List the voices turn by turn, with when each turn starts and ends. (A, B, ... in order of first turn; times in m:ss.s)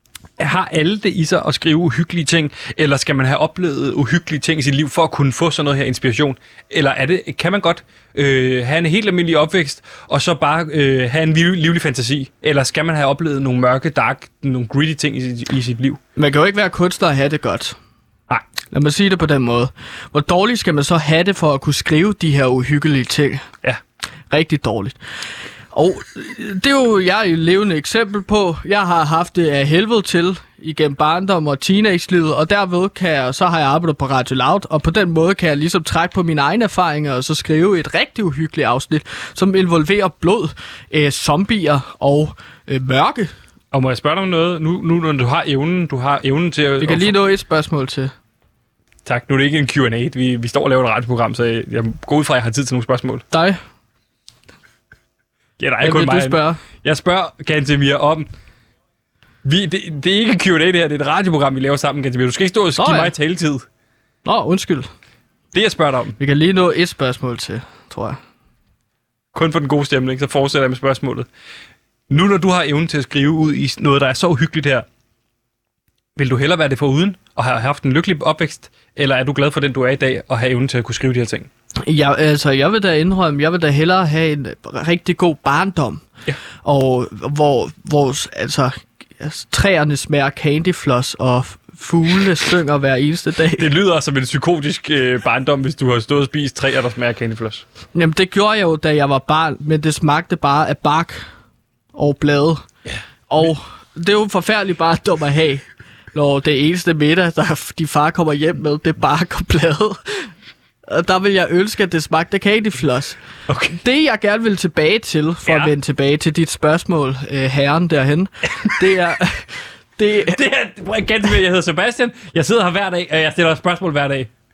0:00.4-0:16.0 A
0:16.2-0:17.8 B
0:18.7-0:23.4 B
0:24.3-0:25.0 B
0:25.7-0:43.3 B
0:43.7-0:47.1 A
0:46.8-0:48.1 B
0:49.0-0:53.2 A
0:53.3-0:53.6 B
0:55.6-0:58.3 A
0:55.8-0:56.6 B
0:59.4-1:03.6 A
1:02.8-1:03.1 B
1:04.2-1:04.9 B
1:05.5-1:06.2 A
1:06.2-1:08.2 B
1:09.3-1:11.3 A
1:12.1-1:14.8 A
1:16.2-1:21.5 A
1:21.8-1:26.0 B
1:26.6-1:33.7 B
1:33.6-1:37.6 A
1:37.9-1:41.2 B
1:41.9-1:42.6 B
1:43.3-1:50.3 B
1:50.9-1:53.2 B
1:53.5-1:53.8 A
1:53.8-2:00.4 B
1:55.4-1:55.7 A
2:00.2-2:04.3 A